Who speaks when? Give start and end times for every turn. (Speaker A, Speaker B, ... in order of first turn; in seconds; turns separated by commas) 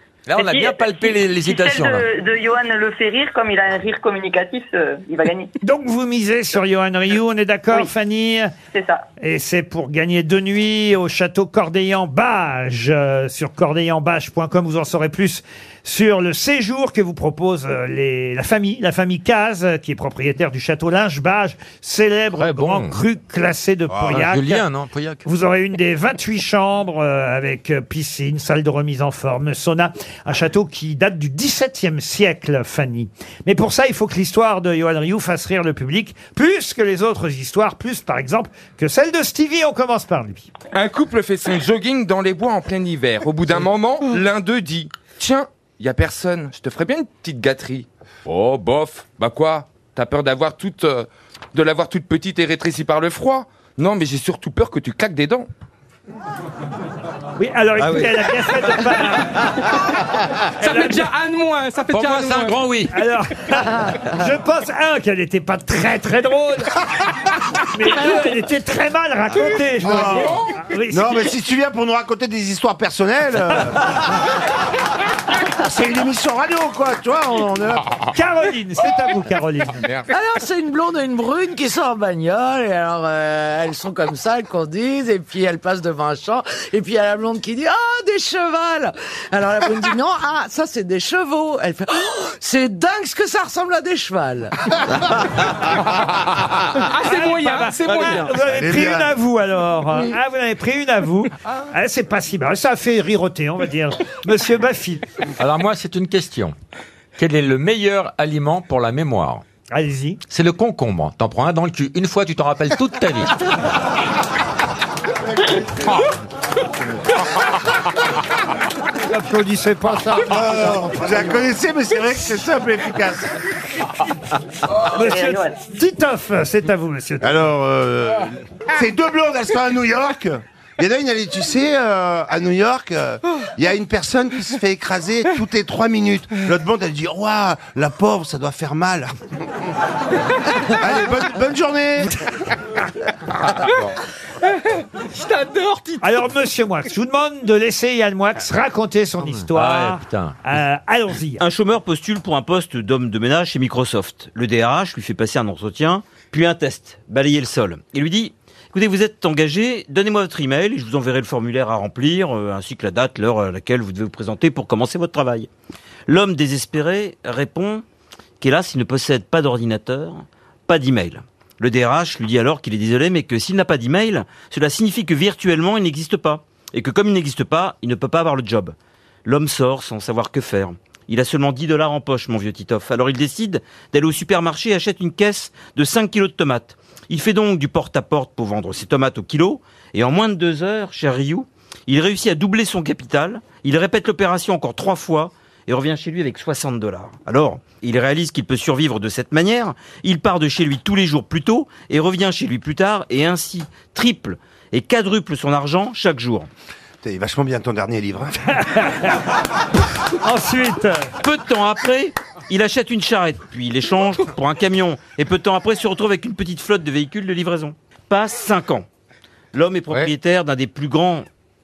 Speaker A: 0.3-2.1, Speaker B: 0.4-5.5, Speaker C: 5.6-8.5, Speaker B: 8.7-9.1, Speaker C: 9.2-24.6, Speaker A: 22.4-22.9, Speaker A: 24.0-25.2, Speaker C: 25.2-40.5, Speaker D: 40.7-55.5, Speaker C: 57.4-59.8, Speaker E: 60.5-62.6, Speaker C: 60.6-61.1, Speaker A: 61.9-62.9, Speaker C: 62.9-67.1, Speaker C: 67.6-71.3, Speaker F: 69.8-70.3, Speaker F: 70.9-74.0, Speaker F: 75.5-77.9, Speaker C: 78.1-79.8, Speaker D: 79.8-80.1, Speaker G: 80.1-94.8, Speaker E: 96.7-98.3, Speaker C: 97.0-105.0, Speaker F: 98.4-99.1, Speaker A: 105.4-106.5, Speaker A: 107.2-109.4, Speaker C: 109.7-110.2, Speaker A: 110.3-113.4, Speaker C: 119.0-121.2, Speaker F: 120.3-123.4, Speaker C: 124.9-127.4, Speaker B: 124.9-125.5, Speaker F: 127.2-139.1, Speaker F: 140.7-142.2, Speaker E: 145.0-146.0, Speaker C: 146.0-151.4, Speaker A: 149.5-150.3, Speaker H: 151.4-165.5, Speaker H: 166.1-167.8, Speaker H: 168.4-206.5, Speaker F: 207.0-208.4, Speaker C: 208.6-209.3, Speaker C: 210.2-211.1, Speaker H: 211.2-218.8, Speaker H: 219.5-221.3